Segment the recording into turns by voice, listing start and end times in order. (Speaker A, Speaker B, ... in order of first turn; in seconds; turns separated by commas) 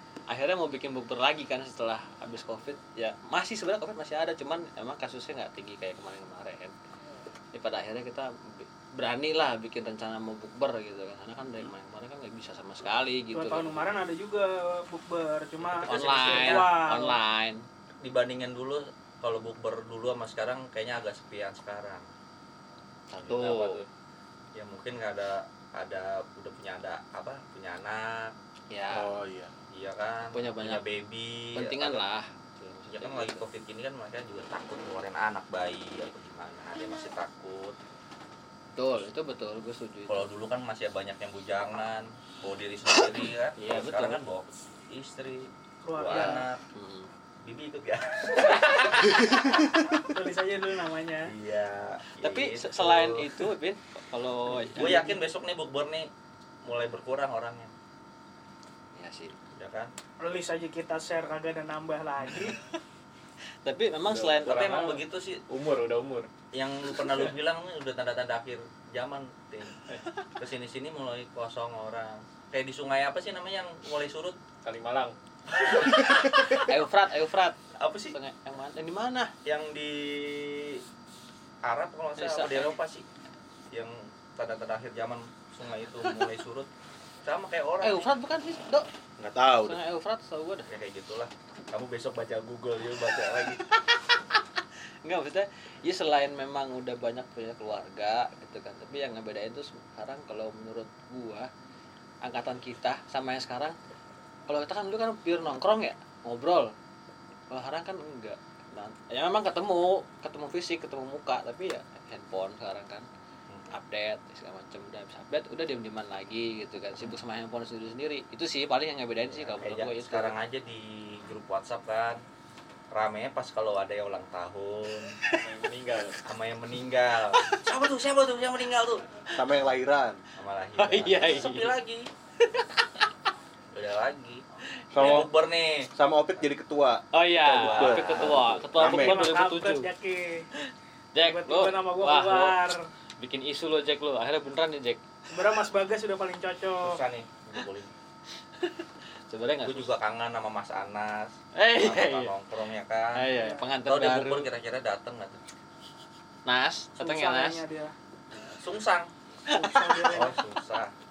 Speaker A: 0.3-6.7, Speaker A: 7.5-13.9, Speaker B: 13.3-17.2, Speaker C: 15.6-16.7, Speaker A: 15.9-17.6, Speaker C: 18.0-22.1, Speaker A: 23.1-23.8, Speaker D: 23.2-23.9, Speaker C: 24.5-28.4, Speaker A: 28.7-29.1, Speaker E: 28.9-29.5, Speaker C: 29.7-32.0, Speaker A: 30.3-30.8, Speaker A: 31.6-33.5, Speaker C: 32.9-37.8, Speaker A: 38.8-40.3, Speaker C: 40.1-46.6, Speaker A: 43.6-44.2, Speaker B: 45.8-46.5, Speaker A: 46.1-47.1, Speaker C: 47.4-49.3, Speaker A: 48.5-49.2, Speaker B: 50.1-51.3, Speaker C: 51.3-53.4, Speaker A: 52.2-55.2, Speaker C: 54.7-56.1, Speaker C: 56.6-57.7, Speaker A: 59.0-59.4, Speaker C: 59.6-59.9, Speaker B: 60.2-62.5, Speaker A: 63.6-64.7, Speaker D: 64.1-66.3, Speaker C: 64.5-65.4, Speaker C: 66.5-69.8, Speaker C: 70.4-74.4, Speaker D: 74.6-75.2, Speaker A: 75.8-77.6, Speaker C: 77.8-78.2, Speaker A: 78.1-79.3, Speaker C: 79.5-80.8, Speaker C: 81.6-83.0, Speaker A: 82.2-82.8, Speaker C: 83.7-86.7, Speaker C: 87.2-88.1, Speaker A: 87.8-88.9, Speaker E: 89.2-89.8, Speaker A: 89.5-90.7, Speaker C: 90.7-93.6, Speaker A: 95.0-101.5, Speaker A: 102.2-103.8, Speaker A: 104.5-106.7, Speaker A: 107.5-113.1, Speaker A: 113.7-120.3, Speaker C: 119.3-122.2, Speaker C: 122.9-125.2, Speaker D: 125.4-126.2, Speaker C: 126.2-129.0, Speaker E: 129.3-130.2, Speaker C: 130.4-132.1, Speaker A: 130.8-131.8, Speaker A: 132.4-132.8, Speaker C: 133.7-134.4, Speaker E: 134.9-135.3, Speaker C: 135.0-135.9, Speaker E: 135.9-137.0, Speaker A: 137.1-139.9, Speaker C: 137.4-138.5, Speaker E: 137.8-139.3, Speaker B: 138.8-140.5, Speaker A: 140.7-142.6, Speaker B: 141.2-142.8, Speaker A: 143.2-145.0, Speaker B: 145.3-147.0, Speaker C: 146.8-147.9, Speaker A: 148.6-149.9, Speaker C: 149.6-153.3, Speaker A: 151.6-152.3, Speaker A: 153.2-154.5, Speaker B: 153.4-153.7, Speaker C: 153.9-155.4, Speaker A: 156.5-157.6, Speaker B: 157.0-157.9, Speaker C: 158.6-159.1, Speaker A: 159.5-160.3, Speaker B: 159.5-160.4, Speaker C: 160.1-160.9